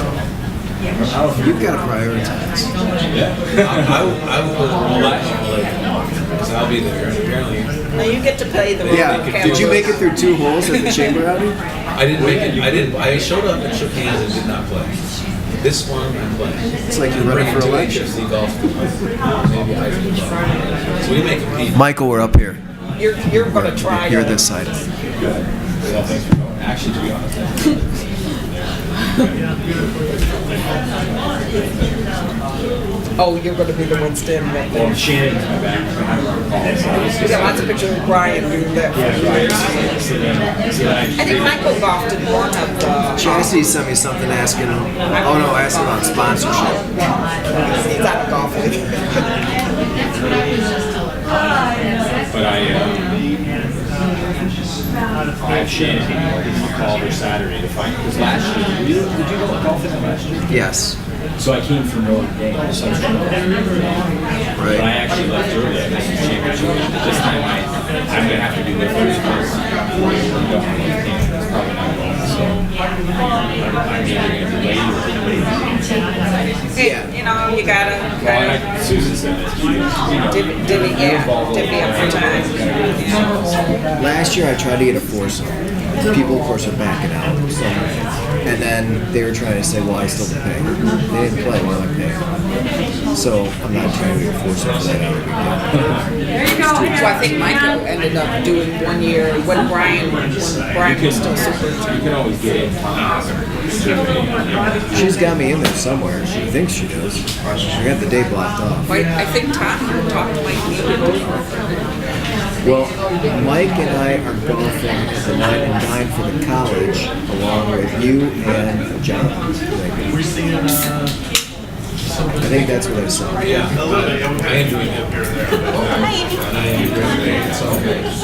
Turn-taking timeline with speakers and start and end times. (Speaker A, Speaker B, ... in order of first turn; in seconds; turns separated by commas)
Speaker A: 0.9-1.8, Speaker B: 1.4-2.7, Speaker A: 3.1-4.1, Speaker C: 3.6-7.7, Speaker A: 4.9-5.7, Speaker D: 8.0-11.1, Speaker B: 8.9-11.6, Speaker A: 8.9-10.0, Speaker C: 11.9-15.0, Speaker A: 12.1-13.0, Speaker C: 15.6-21.9, Speaker B: 16.9-18.1, Speaker B: 21.7-22.6, Speaker D: 23.0-24.8, Speaker B: 23.3-24.8, Speaker A: 25.2-29.4, Speaker C: 25.9-26.2, Speaker D: 33.2-35.0, Speaker A: 34.7-37.8, Speaker D: 37.2-40.1, Speaker A: 38.9-41.7, Speaker D: 41.2-43.6, Speaker B: 43.2-46.8, Speaker D: 45.1-49.3, Speaker A: 52.3-53.2, Speaker A: 55.4-60.6, Speaker B: 60.5-61.0, Speaker A: 61.4-64.0, Speaker B: 64.6-64.9, Speaker A: 64.6-72.7, Speaker A: 73.6-75.8, Speaker D: 76.7-78.7, Speaker B: 76.8-77.1, Speaker A: 78.2-83.7, Speaker D: 80.2-83.4, Speaker B: 84.0-85.5, Speaker B: 86.1-87.9, Speaker B: 88.4-92.3, Speaker B: 93.1-97.3, Speaker D: 96.8-102.0, Speaker A: 100.8-102.8, Speaker A: 103.7-104.5, Speaker B: 104.9-108.9, Speaker D: 108.9-111.8, Speaker B: 112.6-120.2, Speaker B: 122.4-123.7, Speaker C: 123.4-128.1, Speaker D: 125.8-126.3